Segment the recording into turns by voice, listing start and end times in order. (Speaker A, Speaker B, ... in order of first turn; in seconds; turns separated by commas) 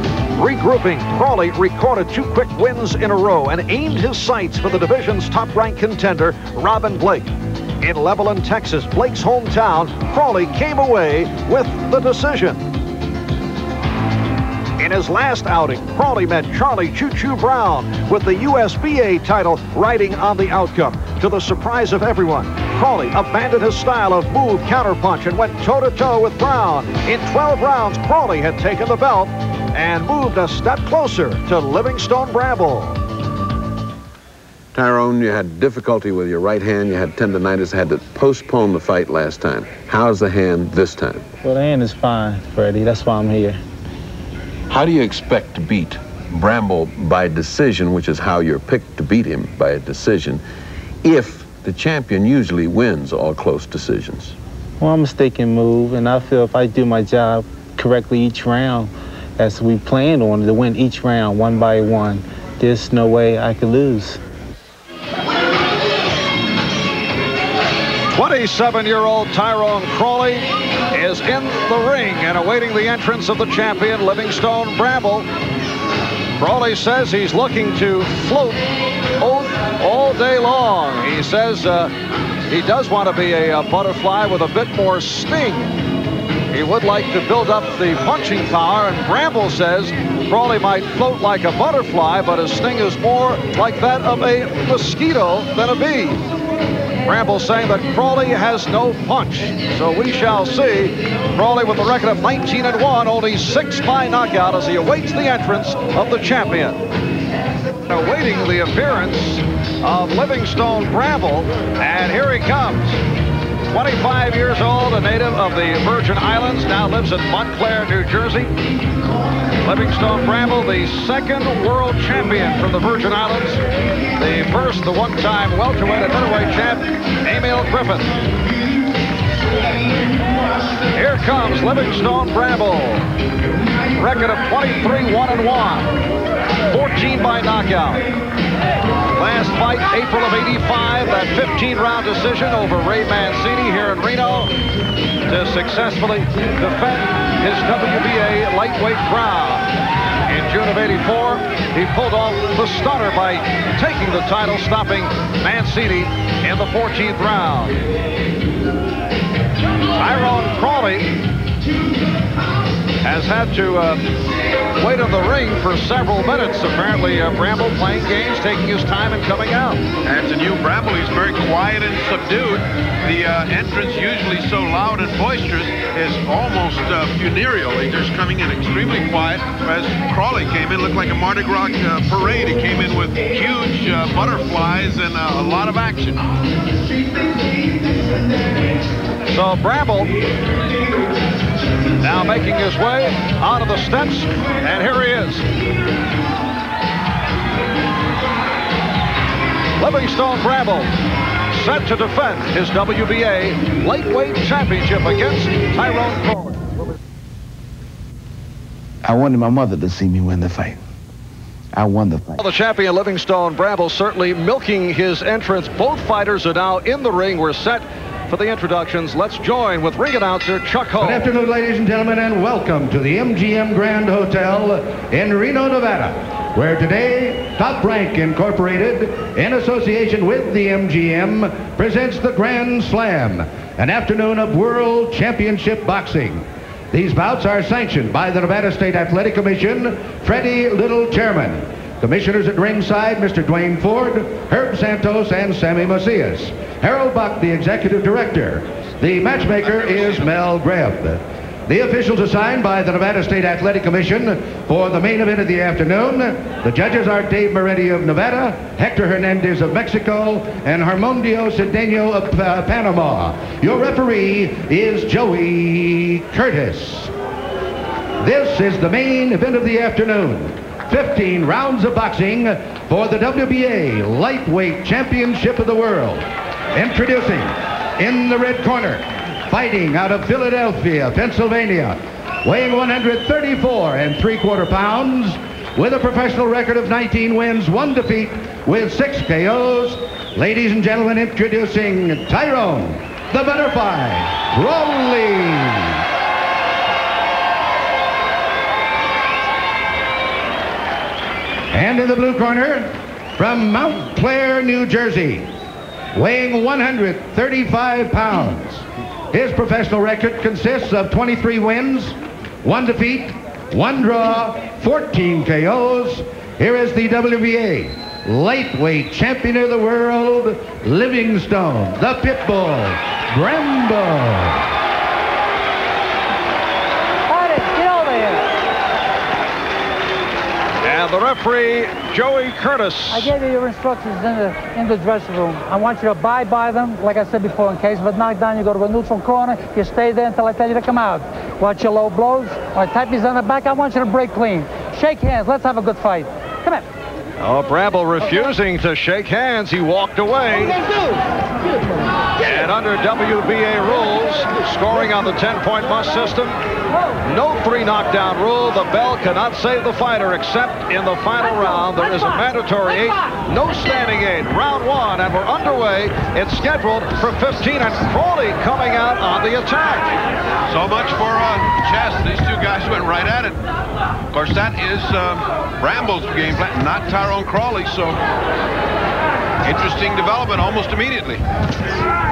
Speaker A: 0.3-12.7, Speaker A: 14.8-33.0, Speaker B: 34.7-41.2, Speaker C: 41.4-43.6, Speaker B: 44.7-50.4, Speaker B: 51.0-54.3, Speaker C: 54.8-64.2, Speaker A: 68.1-75.3, Speaker A: 76.4-78.6, Speaker A: 79.2-81.9, Speaker A: 82.5-85.7, Speaker A: 86.5-96.2, Speaker A: 97.0-106.8, Speaker A: 107.9-113.0, Speaker A: 113.7-118.5, Speaker A: 119.6-123.6, Speaker A: 124.2-128.1, Speaker A: 130.9-133.1, Speaker A: 133.9-135.9, Speaker A: 136.7-138.1, Speaker A: 139.2-144.5, Speaker A: 145.3-149.7, Speaker A: 150.3-157.8, Speaker A: 160.0-161.1, Speaker A: 163.0-164.0, Speaker A: 164.8-169.8, Speaker B: 170.0-186.2, Speaker A: 189.3-190.1, Speaker A: 192.0-195.4, Speaker A: 199.8-200.9, Speaker A: 201.5-206.6, Speaker D: 209.0-210.8, Speaker D: 211.7-212.4, Speaker A: 212.4-221.2, Speaker E: 221.0-267.1, Speaker E: 268.2-296.0, Speaker E: 301.7-305.5, Speaker E: 306.1-324.6, Speaker F: 327.3-328.5, Speaker A: 330.8-333.3, Speaker F: 333.1-346.9, Speaker A: 347.4-350.8, Speaker A: 352.4-356.6, Speaker A: 357.2-370.2, Speaker B: 370.7-373.6, Speaker B: 374.3-378.2, Speaker B: 379.6-381.4